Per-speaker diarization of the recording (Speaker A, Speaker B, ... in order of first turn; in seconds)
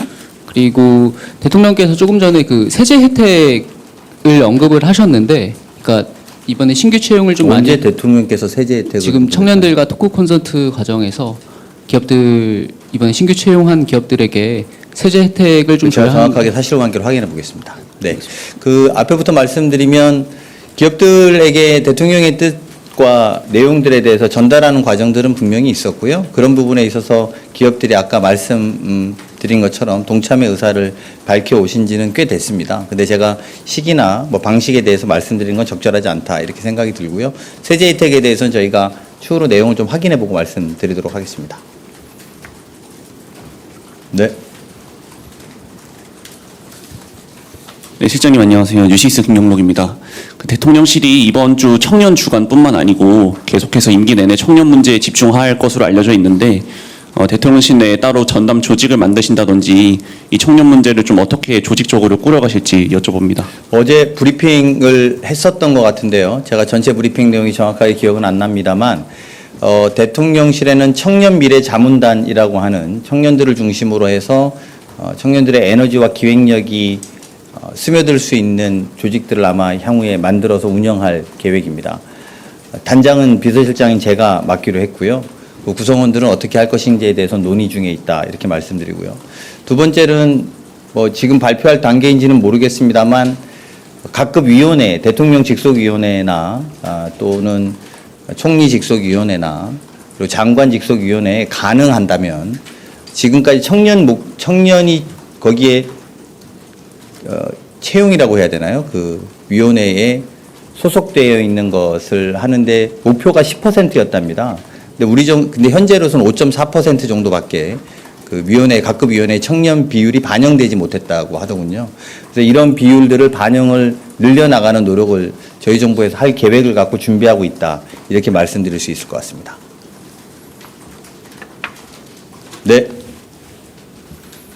Speaker A: 0.5-7.8, 9.0-16.4
Speaker B: 7.4-9.8, 15.8-41.6, 63.7-69.1, 69.6-77.0, 77.6-82.0, 82.8-93.4, 94.1-102.6, 103.1-105.9, 107.2-129.6, 132.7-132.9
Speaker C: 48.0-63.5